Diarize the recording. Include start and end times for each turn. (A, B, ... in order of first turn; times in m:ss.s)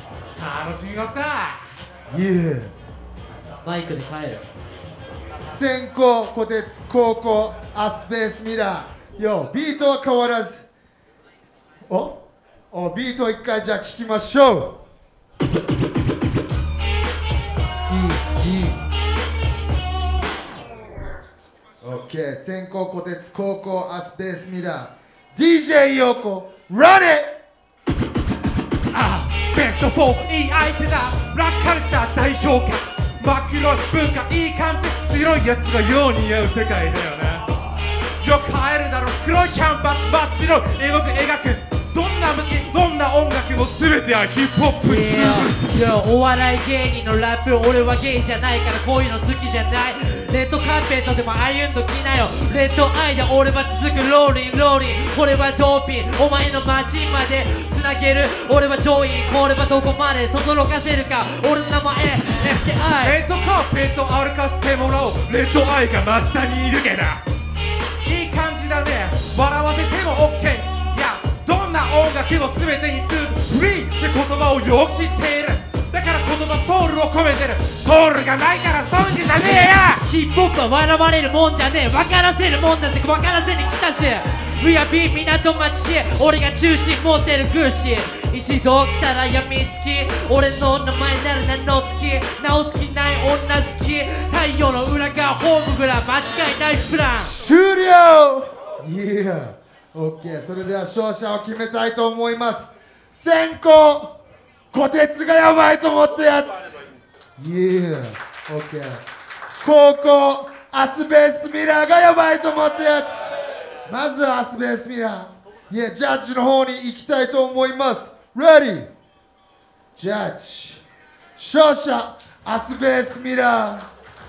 0:00.4-0:01.6 A
0:02.1-0:02.7 B
0:03.6-0:04.5 C
0:05.5-0:10.7 B
0:11.9-0:14.8 B
0:17.9-0:18.8 B
0:21.8-0:27.4 B
0:28.9-0:37.5 A
0:38.2-0:45.6 A
0:44.8-1:03.2 C
1:03.0-1:07.2 A
1:08.0-1:20.0 A
1:19.9-1:37.3 C
1:37.2-1:44.2 B
1:44.7-1:46.8 B
1:47.4-1:49.0 B
1:49.6-1:53.4 B
1:53.9-1:58.9 B
2:00.0-2:00.8 B
2:01.4-2:03.9 B